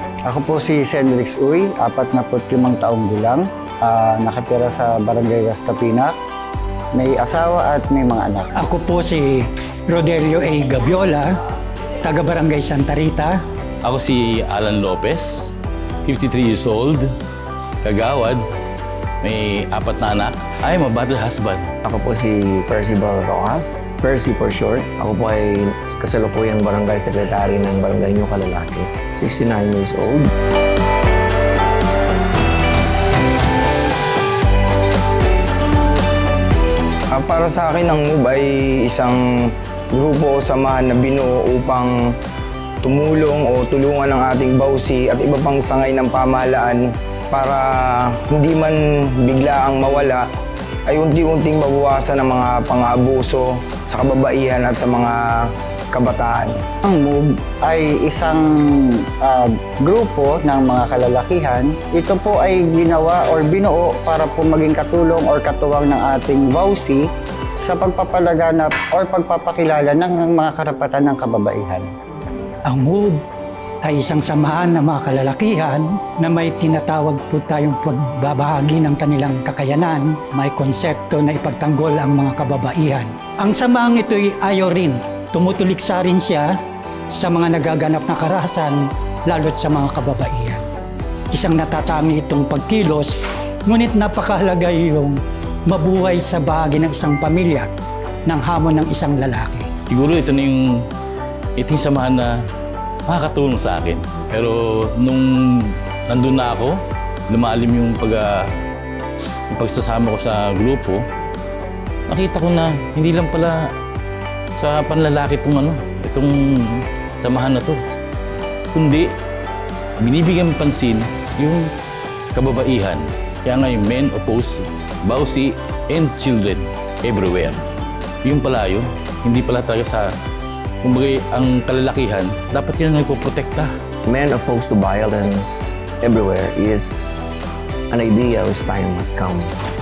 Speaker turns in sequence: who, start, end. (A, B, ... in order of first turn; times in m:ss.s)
0:00.3-0:06.2 A
0:06.9-0:08.5 A
0:08.6-0:11.3 B
0:12.0-0:13.4 B
0:13.8-0:15.5 C
0:16.1-0:17.1 C
0:17.8-0:18.4 C
0:19.2-0:21.7 C
0:21.8-0:30.3 D
0:37.1-0:41.9 E
0:42.8-0:50.2 E
0:50.9-0:56.6 E
0:56.8-0:58.5 A
0:59.2-1:07.1 A
1:07.6-1:11.9 A
1:12.7-1:13.2 B
1:13.8-1:26.6 B
1:27.1-1:30.6 B
1:31.3-1:37.7 B
1:38.3-1:39.7 B
1:39.9-1:40.8 C
1:41.6-1:42.4 C
1:43.1-1:48.5 C
1:49.5-1:51.0 C
1:52.1-1:53.7 C
1:54.6-1:57.8 C
1:58.7-1:59.1 C
2:00.0-2:01.7 C
2:02.4-2:07.6 C
2:08.2-2:10.1 C
2:10.8-2:13.7 C
2:14.1-2:19.5 D